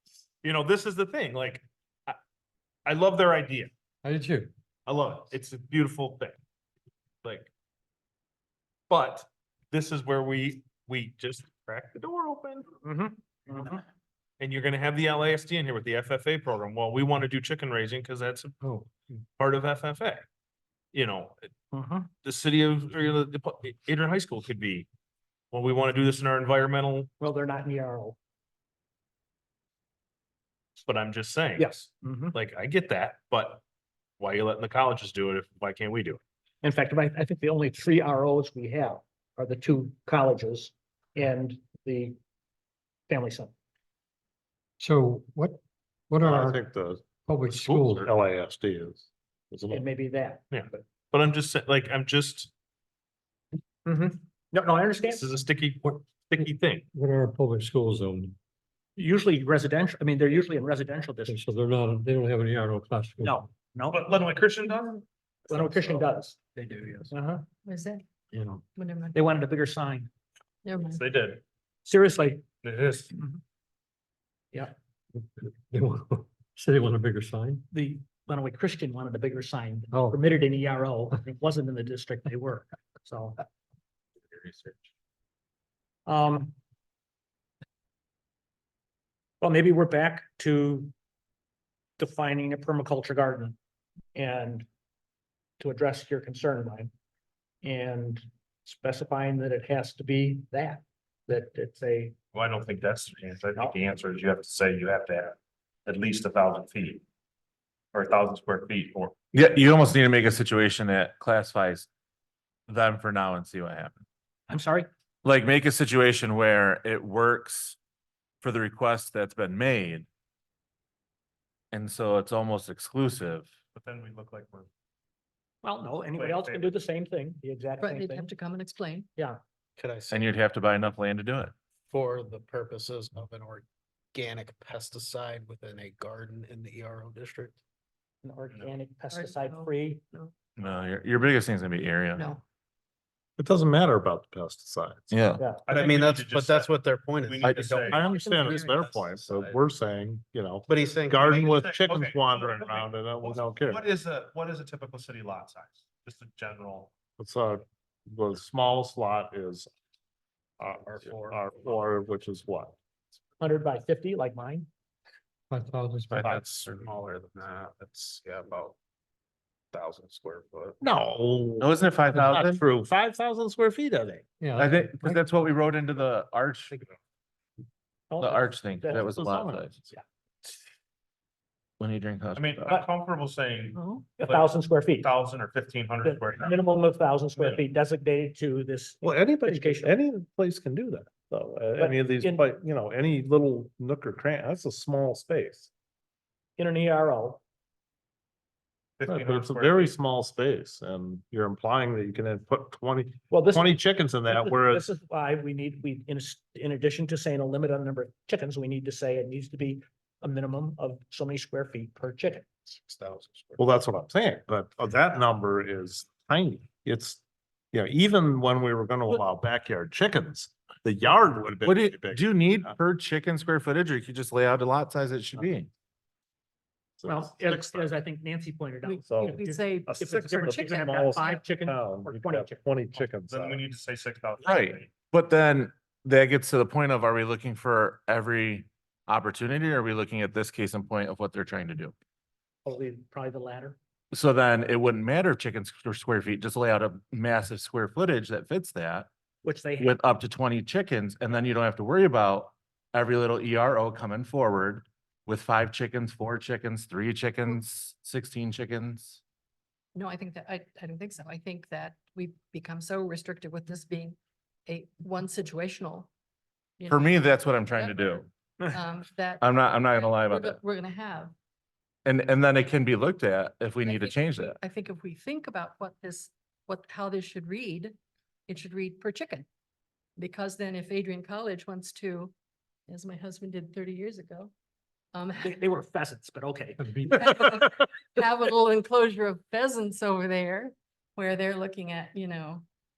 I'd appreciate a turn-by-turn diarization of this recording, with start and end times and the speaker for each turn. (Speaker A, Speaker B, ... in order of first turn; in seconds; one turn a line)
Speaker A: 0.4-2.2
Speaker A: 2.9-3.7
Speaker B: 4.0-4.5
Speaker A: 4.9-6.3
Speaker A: 7.2-7.5
Speaker A: 8.9-12.6
Speaker C: 12.8-13.8
Speaker A: 14.4-18.4
Speaker B: 18.6-18.9
Speaker A: 19.4-20.2
Speaker D: 19.8-20.2
Speaker A: 20.9-21.5
Speaker C: 21.7-22.1
Speaker A: 22.2-24.9
Speaker A: 25.5-27.1
Speaker C: 27.2-28.1
Speaker A: 30.8-31.6
Speaker C: 31.6-32.4
Speaker A: 32.3-33.6
Speaker A: 34.2-36.2
Speaker C: 36.6-42.2
Speaker C: 43.1-43.5
Speaker B: 44.8-48.1
Speaker E: 46.2-49.9
Speaker C: 49.7-50.8
Speaker A: 50.5-52.3
Speaker C: 53.8-55.2
Speaker A: 55.1-56.8
Speaker B: 56.4-58.4
Speaker C: 59.0-61.4
Speaker B: 61.2-63.4
Speaker C: 63.2-64.3
Speaker A: 63.9-64.8
Speaker D: 64.0-65.0
Speaker C: 65.5-66.5
Speaker C: 67.1-67.4
Speaker D: 67.7-68.0
Speaker B: 68.3-68.6
Speaker D: 68.8-69.1
Speaker C: 69.1-70.1
Speaker D: 70.6-71.4
Speaker C: 71.8-72.4
Speaker D: 72.6-73.0
Speaker B: 75.2-77.6
Speaker C: 77.7-83.4
Speaker B: 79.9-80.2
Speaker C: 86.0-86.5
Speaker C: 89.4-90.9
Speaker C: 92.0-93.6
Speaker C: 94.1-94.7
Speaker C: 95.6-96.9
Speaker C: 97.6-102.1
Speaker A: 102.3-107.0
Speaker A: 107.9-109.1
Speaker F: 109.3-111.9
Speaker F: 112.7-114.0
Speaker C: 114.5-114.9
Speaker F: 115.2-117.8
Speaker F: 118.4-120.1
Speaker F: 121.7-123.5
Speaker A: 123.9-124.7
Speaker C: 125.6-128.3
Speaker A: 126.1-126.7
Speaker A: 127.9-128.2
Speaker D: 127.9-129.0
Speaker G: 129.8-130.3
Speaker F: 130.1-131.5
Speaker G: 131.9-137.6
Speaker C: 138.2-140.0
Speaker D: 139.1-140.3
Speaker F: 140.6-142.3
Speaker E: 143.4-145.1
Speaker F: 145.1-145.4
Speaker A: 145.6-146.4
Speaker G: 145.7-149.5
Speaker D: 145.8-146.6
Speaker A: 147.2-148.5
Speaker E: 147.4-153.8
Speaker D: 147.7-148.8
Speaker G: 150.7-151.3
Speaker A: 151.2-151.9
Speaker D: 151.9-152.6
Speaker A: 152.8-156.8
Speaker D: 155.5-155.8
Speaker E: 157.2-159.7
Speaker E: 160.6-162.8
Speaker G: 160.7-161.4
Speaker C: 163.4-164.7
Speaker B: 165.5-166.4
Speaker G: 166.1-168.7
Speaker G: 169.7-170.8
Speaker E: 170.8-174.2
Speaker F: 171.6-172.6
Speaker B: 174.4-175.2
Speaker F: 174.6-176.8
Speaker C: 178.1-179.2
Speaker F: 178.2-179.8
Speaker E: 179.0-179.7
Speaker F: 181.8-182.7
Speaker D: 182.7-183.8
Speaker C: 183.8-185.1
Speaker A: 185.0-185.4
Speaker D: 185.4-186.4
Speaker A: 186.0-186.4
Speaker C: 186.0-189.9
Speaker E: 189.0-195.7
Speaker C: 191.8-192.4
Speaker C: 196.6-197.4
Speaker A: 199.0-199.9
Speaker E: 199.1-204.9
Speaker C: 203.3-212.5
Speaker G: 212.7-213.6
Speaker E: 213.6-222.7
Speaker F: 221.6-225.7
Speaker E: 227.0-227.9
Speaker C: 227.0-232.6
Speaker D: 228.9-229.9
Speaker E: 229.1-233.6
Speaker D: 233.3-233.9
Speaker A: 233.5-234.9
Speaker F: 234.4-241.9
Speaker C: 242.6-243.8
Speaker F: 244.1-249.1
Speaker C: 249.4-250.0
Speaker F: 249.8-259.2
Speaker D: 259.9-264.1
Speaker D: 264.7-266.1
Speaker F: 266.9-268.3
Speaker D: 267.7-268.1
Speaker D: 268.7-271.3
Speaker F: 269.4-270.6
Speaker F: 272.0-274.6
Speaker D: 273.9-277.9
Speaker D: 278.5-279.4
Speaker D: 280.2-282.3
Speaker D: 282.9-284.5
Speaker D: 285.1-285.4
Speaker C: 285.4-287.5
Speaker B: 286.8-287.3
Speaker D: 287.1-292.6